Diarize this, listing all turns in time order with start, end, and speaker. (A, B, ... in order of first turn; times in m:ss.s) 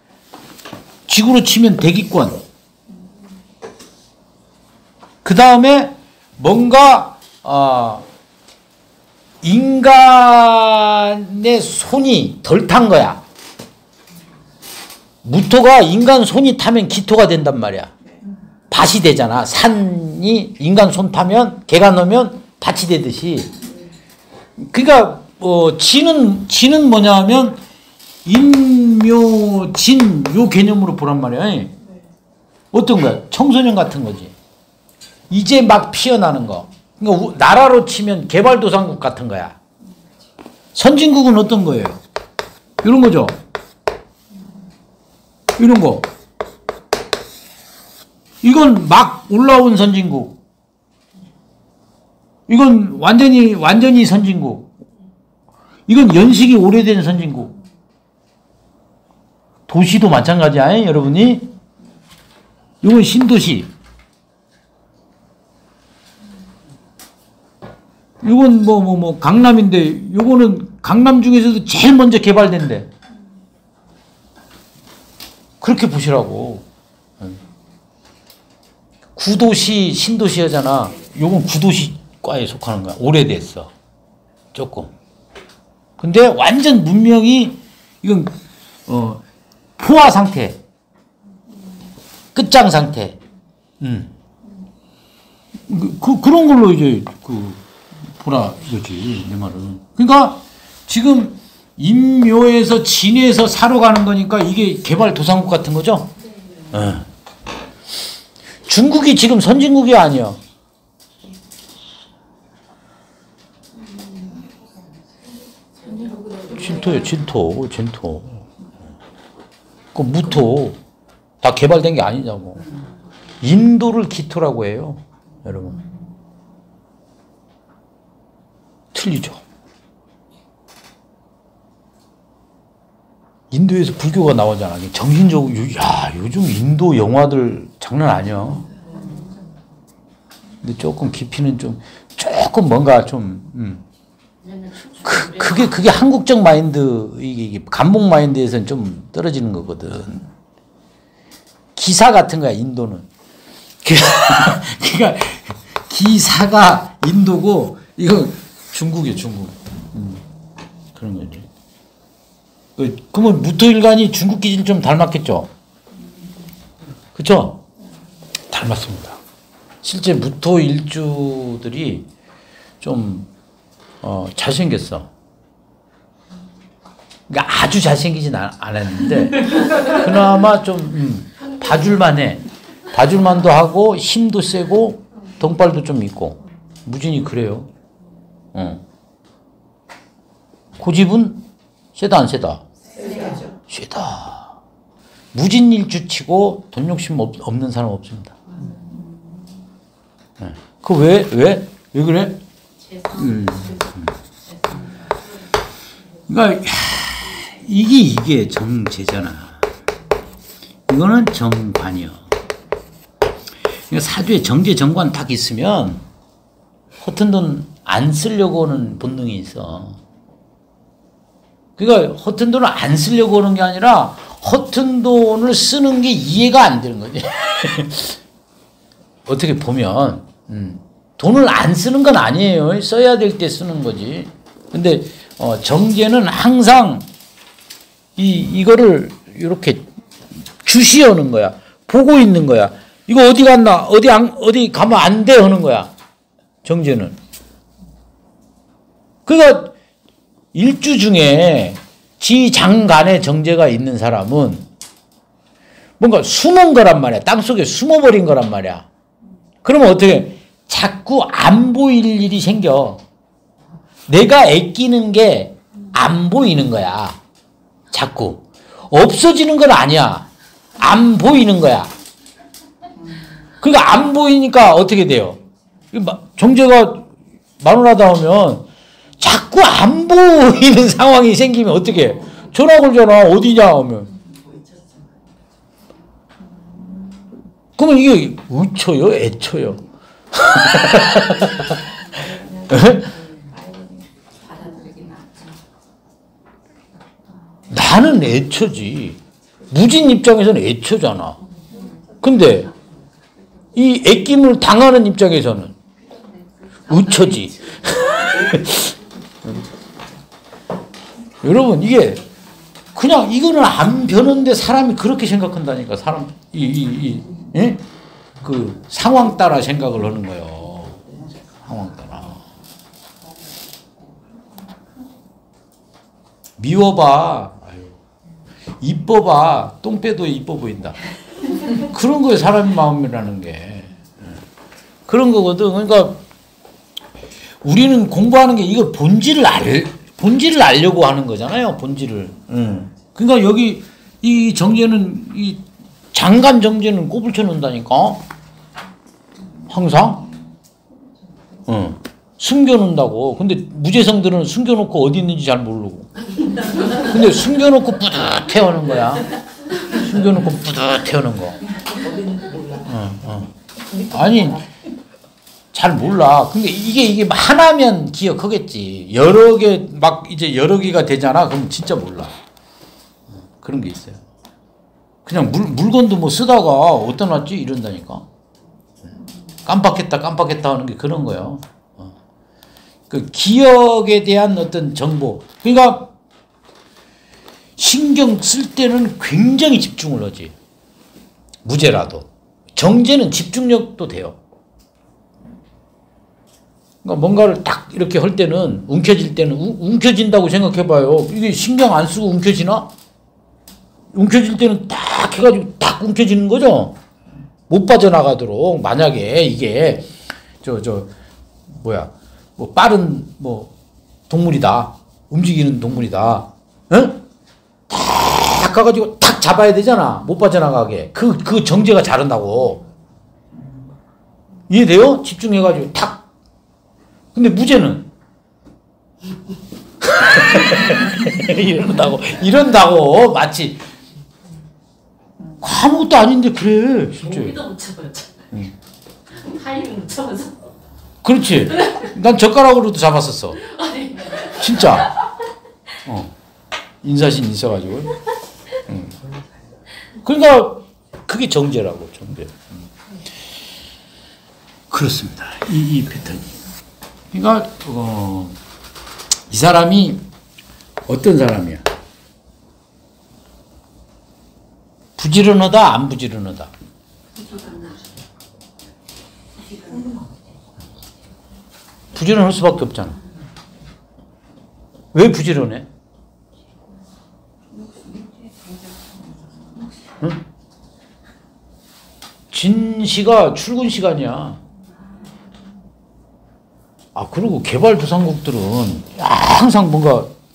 0:01.1-0:02.4 A
0:05.2-0:08.0 A
0:09.4-0:13.2 A
0:15.2-0:17.9 A
0:18.7-0:23.5 A
0:24.6-0:27.6 A
0:28.2-0:31.7 A
0:32.7-0:34.3 A
0:35.3-0:39.6 A
0:40.7-0:42.0 A
0:42.8-0:43.4 A
0:45.6-0:46.1 A
0:48.4-0:50.4 A
0:52.5-0:54.7 A
0:55.9-0:57.5 A
0:59.7-1:01.5 A
1:02.8-1:03.7 A
1:08.2-1:12.9 A
1:15.6-1:16.6 A
1:19.2-1:23.7 A
1:24.5-1:24.9 A
1:26.0-1:28.3 A
1:28.9-1:29.2 A
1:29.8-1:30.6 A
1:32.3-1:33.2 A
1:33.8-1:34.1 A
1:35.7-1:37.6 A
1:38.2-1:46.1 A
1:46.2-1:46.7 B
1:46.7-1:47.0 A
1:48.6-1:50.4 A
1:53.8-1:54.5 B
1:55.8-1:57.0 B
1:56.5-1:58.4 A
1:59.9-2:00.8 A
2:01.4-2:02.7 A
2:03.4-2:05.8 A
2:08.9-2:09.4 A
2:13.5-2:18.7 A
2:18.8-2:19.3 B
2:20.6-2:23.8 A
2:24.4-2:25.9 B
2:25.0-2:30.3 A
2:31.8-2:33.1 A
2:33.8-2:40.2 A
2:40.9-2:41.5 A
2:42.8-2:45.5 A
2:47.1-2:47.6 A
2:48.5-2:49.2 A
2:49.8-2:52.1 A
2:52.8-2:53.3 A
2:54.0-2:55.1 A
2:57.3-3:07.7 A
3:08.5-3:08.8 A
3:10.8-3:12.6 A
3:12.9-3:13.5 B
3:13.7-3:14.6 A
3:15.3-3:18.4 A
3:18.5-3:19.1 B
3:20.4-3:22.4 A
3:22.8-3:25.4 B
3:23.1-3:24.1 A
3:26.3-3:29.6 A
3:30.9-3:32.3 A
3:33.9-3:36.0 A
3:37.0-3:40.0 A
3:41.8-3:48.2 A
3:49.2-3:57.0 A
3:58.2-3:59.8 A
4:00.6-4:05.9 A
4:06.6-4:07.2 A
4:09.2-4:09.7 A
4:10.5-4:14.6 A
4:16.0-4:18.8 A
4:19.6-4:23.0 A
4:24.1-4:27.2 A
4:27.9-4:31.9 A
4:33.6-4:38.7 A
4:39.2-4:44.1 A
4:44.2-4:45.0 B
4:47.8-4:53.1 A
4:52.1-4:55.6 B
4:57.7-4:59.2 A
4:59.7-5:01.4 A
5:01.6-5:02.1 B
5:02.2-5:02.7 A
5:03.7-5:05.7 A
5:06.9-5:08.5 B
5:06.9-5:09.6 A
5:11.4-5:12.3 A
5:12.9-5:17.8 A
5:18.4-5:22.4 A
5:26.6-5:28.0 A
5:28.8-5:31.0 A
5:31.7-5:34.0 A
5:35.1-5:36.2 A
5:37.6-5:48.3 A
5:49.7-5:50.3 A
5:51.7-5:56.1 A
5:56.8-6:01.6 A
6:02.0-6:02.7 B
6:02.8-6:04.7 A
6:05.7-6:12.3 A
6:13.6-6:14.2 A
6:15.2-6:18.2 A
6:19.6-6:22.1 A
6:23.1-6:26.1 A
6:27.8-6:30.5 A
6:31.6-6:34.4 A
6:37.0-6:42.9 A
6:44.1-6:47.0 A
6:47.7-6:51.1 A
6:51.7-6:53.7 A
6:54.3-6:57.2 A
6:57.9-7:02.8 A
7:04.7-7:06.2 A
7:07.3-7:08.1 A
7:10.0-7:13.8 A
7:15.6-7:17.6 A
7:17.2-7:18.4 B
7:19.3-7:20.7 B
7:21.2-7:23.6 A
7:21.8-7:22.0 B
7:23.6-7:25.1 B
7:24.4-7:25.2 A
7:26.0-7:26.3 A
7:27.0-7:28.2 A
7:28.8-7:29.2 A
7:30.2-7:32.7 A
7:34.9-7:36.5 A
7:37.3-7:38.6 A
7:39.5-7:40.2 A
7:41.1-7:41.8 A
7:45.2-7:46.7 A
7:47.3-7:48.2 B
7:49.6-7:50.4 B
7:52.1-7:53.2 A
7:55.1-7:55.9 A
7:57.7-7:59.9 B
8:02.5-8:04.6 A
8:07.1-8:10.3 A